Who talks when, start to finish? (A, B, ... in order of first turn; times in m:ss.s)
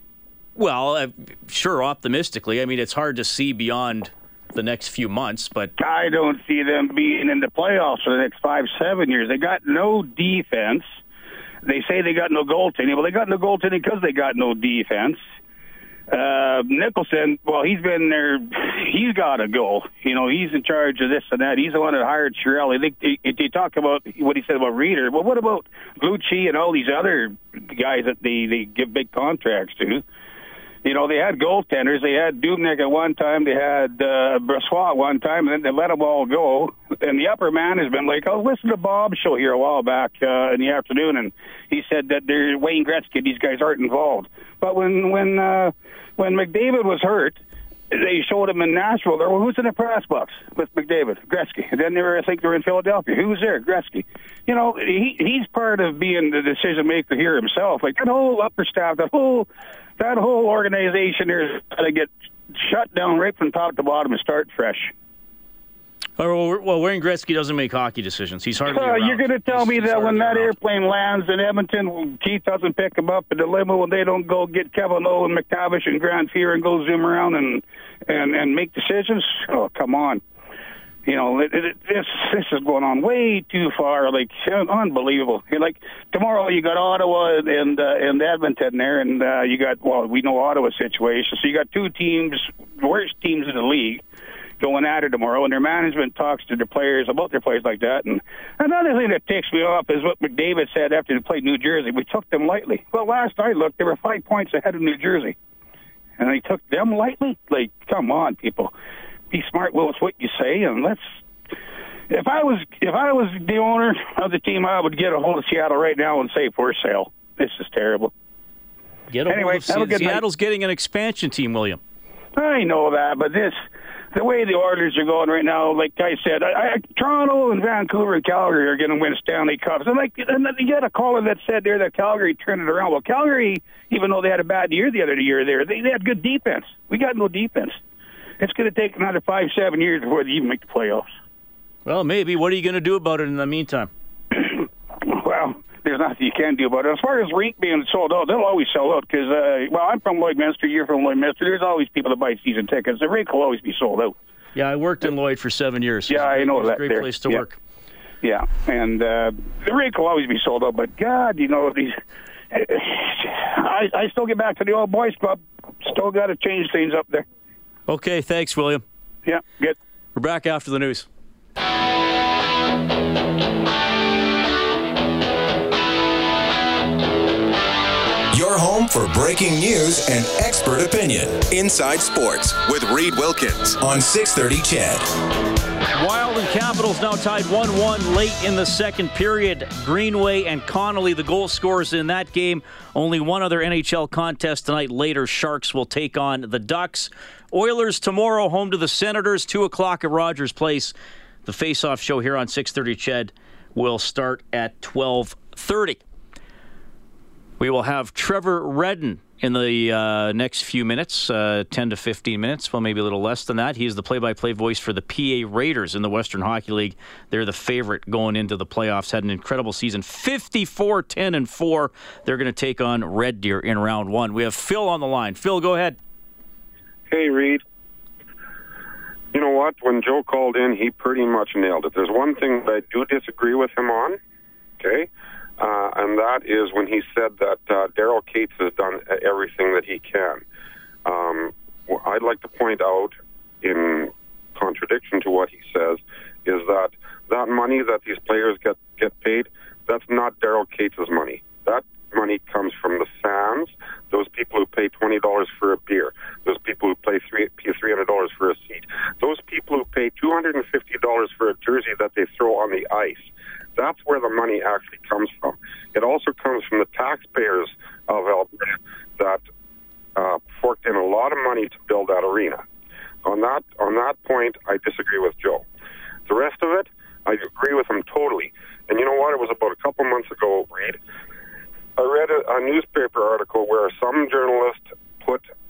0:00.6-0:05.7 A
0:05.8-0:10.8 B
0:11.6-0:15.2 B
0:16.1-0:30.0 B
0:30.8-0:47.4 B
0:47.9-1:04.9 B
1:06.2-1:10.5 A
1:08.7-1:20.2 B
1:21.0-1:34.0 B
1:34.6-1:45.4 B
1:46.2-1:48.7 B
1:49.3-1:51.2 B
1:52.1-1:58.1 B
1:59.1-2:01.8 A
1:59.3-2:00.2 B
2:02.4-2:03.6 B
2:04.1-2:17.8 B
2:18.4-2:21.1 B
2:21.8-2:23.9 A
2:24.3-2:34.2 B
2:34.6-2:37.6 A
2:36.1-2:37.4 B
2:38.2-2:42.0 B
2:42.5-2:47.2 B
2:47.9-2:48.8 A
2:49.3-2:49.8 B
2:50.2-2:51.1 A
2:58.3-3:05.1 C
3:05.9-3:20.9 A
3:21.4-3:26.0 A
3:27.6-3:46.0 A
3:47.1-3:47.6 D
3:49.3-3:54.2 D
3:54.8-4:00.4 D
4:01.0-4:29.4 D
4:30.2-4:32.6 D
4:33.2-4:35.6 D
4:36.3-4:41.0 D
4:42.0-4:45.4 D